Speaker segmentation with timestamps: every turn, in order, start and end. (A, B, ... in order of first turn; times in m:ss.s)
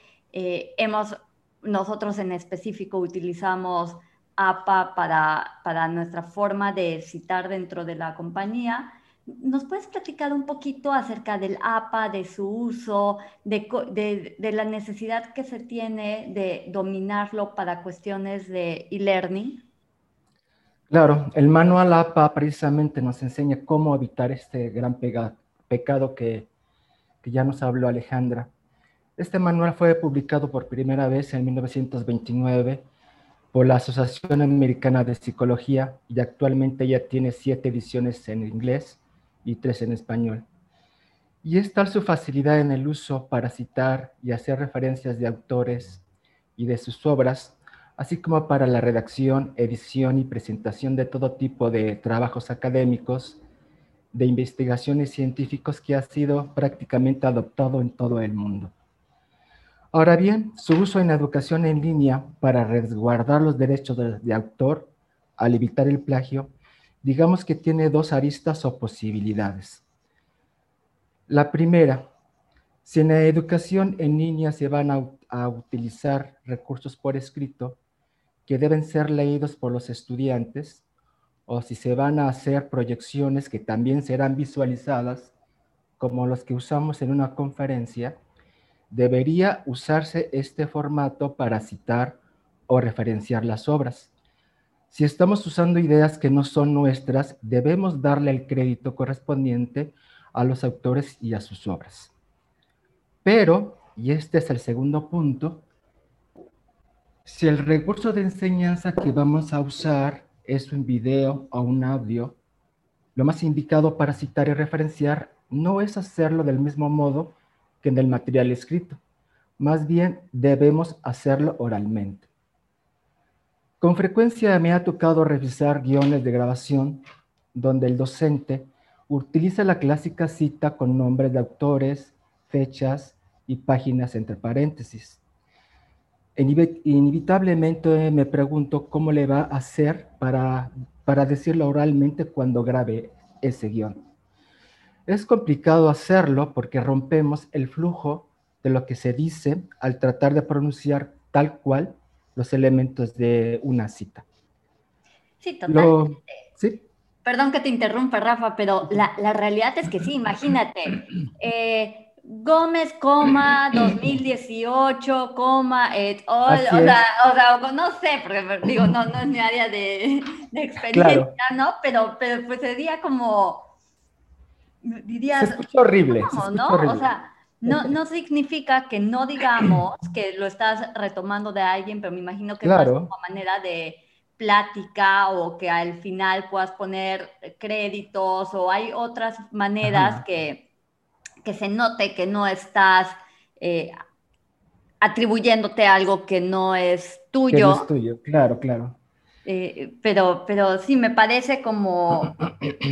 0:00.3-0:19.6 A
0:20.9-0:26.5 B
0:27.2-0:28.5 B
0:29.2-0:32.8 B
0:33.5-0:40.4 B
0:41.4-0:46.0 B
0:46.6-0:53.4 B
0:54.1-0:58.7 B
0:59.9-1:06.5 B
1:07.0-1:09.8 B
1:11.3-1:12.1 B
1:12.8-1:17.8 B
1:18.5-1:20.8 B
1:21.5-1:25.3 B
1:26.0-1:28.2 B
1:28.9-1:34.1 B
1:34.9-1:42.1 B
1:43.2-1:45.6 B
1:47.2-1:52.4 B
1:53.1-1:59.0 B
1:59.6-2:02.3 B
2:03.8-2:15.2 B
2:16.4-2:24.0 B
2:25.1-2:34.2 B
2:35.4-2:36.4 A
2:35.7-2:36.8 B
2:37.2-2:53.7 A
2:46.5-2:47.0 B
2:50.9-2:51.3 B
2:54.8-3:10.7 A
2:55.3-2:57.1 B
2:57.6-2:57.9 B
3:02.6-3:03.1 B
3:09.8-3:10.2 B
3:11.4-3:13.9 A
3:15.0-3:17.9 A
3:17.5-3:19.0 B
3:19.4-3:22.4 A